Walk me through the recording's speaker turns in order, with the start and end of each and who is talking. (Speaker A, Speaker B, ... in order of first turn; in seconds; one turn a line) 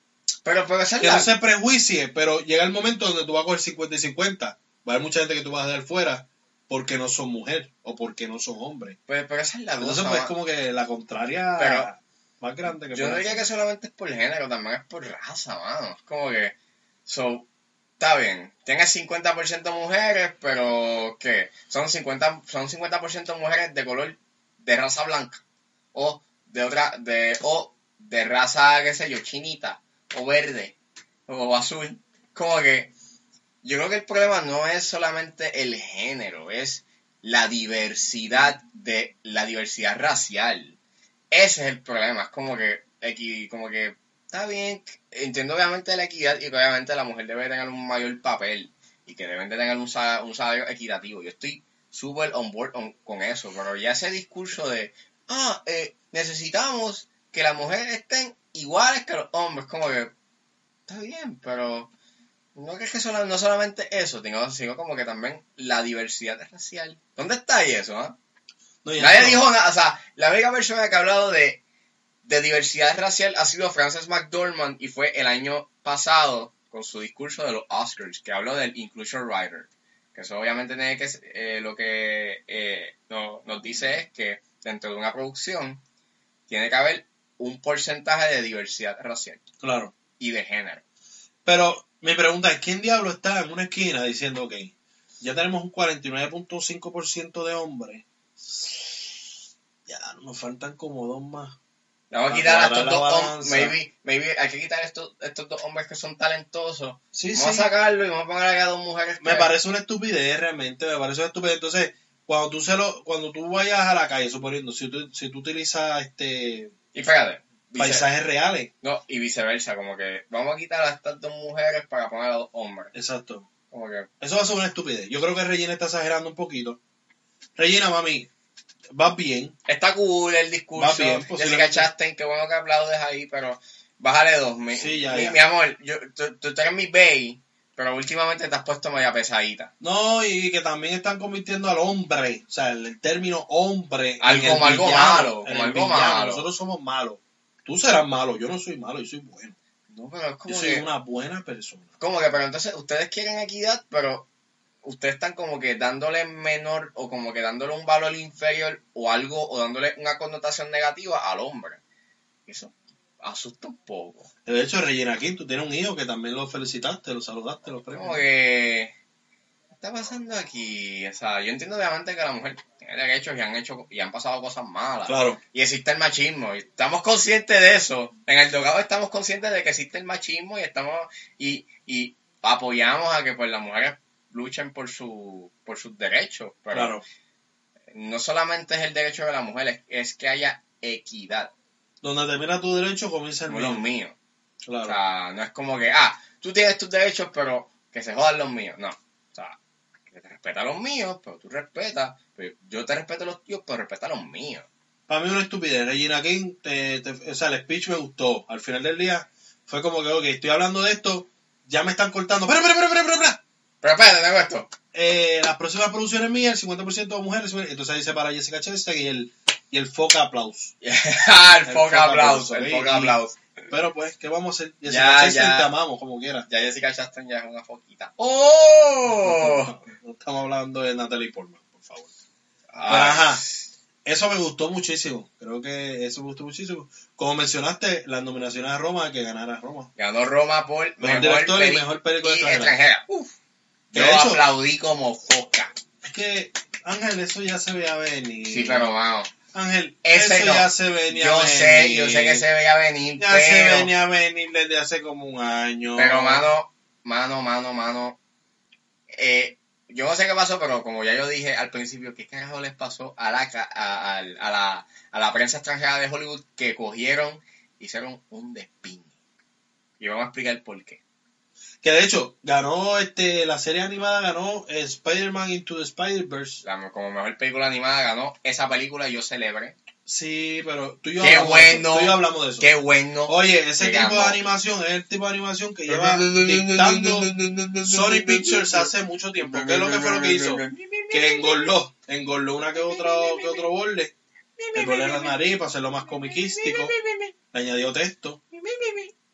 Speaker A: 0.4-1.3
Speaker B: 1.0-9.0
Speaker A: 9.1-10.3
Speaker B: 9.8-13.4
Speaker A: 11.6-11.9
Speaker A: 12.9-16.6
Speaker A: 17.1-17.5
Speaker A: 18.0-25.4
Speaker A: 25.9-30.8
Speaker A: 31.3-32.9
Speaker A: 33.6-40.8
Speaker A: 41.3-60.1
Speaker A: 60.9-61.9
Speaker A: 62.5-68.2
Speaker B: 68.8-69.5
Speaker A: 69.0-71.6
Speaker A: 72.2-85.8
Speaker A: 86.5-89.4
Speaker B: 89.6-89.9
Speaker A: 90.2-90.8
Speaker B: 91.5-99.1
Speaker B: 99.9-101.6
Speaker A: 102.1-109.5
Speaker B: 102.3-103.8
Speaker B: 107.1-107.7
Speaker B: 109.2-116.7
Speaker A: 116.9-118.1
Speaker B: 117.8-118.7
Speaker A: 118.8-122.9
Speaker B: 122.9-123.5
Speaker A: 123.7-124.1
Speaker B: 124.2-126.8
Speaker B: 127.6-128.3
Speaker B: 128.9-129.6
Speaker A: 129.7-139.7
Speaker B: 130.8-131.9
Speaker B: 134.7-135.4
Speaker B: 139.8-149.6
Speaker A: 144.2-146.4
Speaker A: 149.9-150.8
Speaker B: 150.5-151.9
Speaker A: 152.0-154.3
Speaker A: 154.8-161.8
Speaker A: 162.5-164.3
Speaker B: 164.5-168.2
Speaker A: 167.9-168.9
Speaker A: 169.8-187.0
Speaker B: 175.1-175.4
Speaker B: 186.7-187.0
Speaker A: 187.9-191.5
Speaker B: 192.0-193.8
Speaker A: 193.5-194.2
Speaker B: 194.7-195.0
Speaker A: 194.8-199.6
Speaker A: 200.1-204.7
Speaker B: 205.1-213.4
Speaker A: 213.8-214.7
Speaker B: 214.9-220.7
Speaker A: 220.8-223.4
Speaker B: 221.6-223.2
Speaker B: 223.7-226.5
Speaker A: 224.9-225.7
Speaker A: 226.5-229.8
Speaker B: 229.1-232.1
Speaker A: 232.7-233.7
Speaker B: 232.9-233.4
Speaker B: 234.1-239.9
Speaker A: 240.0-243.3
Speaker B: 241.0-242.8
Speaker B: 243.9-244.4
Speaker A: 243.9-245.7
Speaker B: 246.0-248.9
Speaker A: 248.5-249.3
Speaker B: 249.5-252.4
Speaker A: 250.0-253.9
Speaker B: 253.2-256.4
Speaker A: 256.0-258.2
Speaker A: 259.1-269.1
Speaker A: 270.0-271.0
Speaker B: 271.8-276.6
Speaker A: 276.6-279.8
Speaker B: 280.1-282.7
Speaker A: 281.2-284.4
Speaker B: 283.3-287.3
Speaker A: 285.9-291.7
Speaker B: 287.8-294.1
Speaker A: 292.7-293.7
Speaker A: 294.6-297.3
Speaker B: 294.8-296.9
Speaker B: 297.5-298.4
Speaker A: 298.5-299.1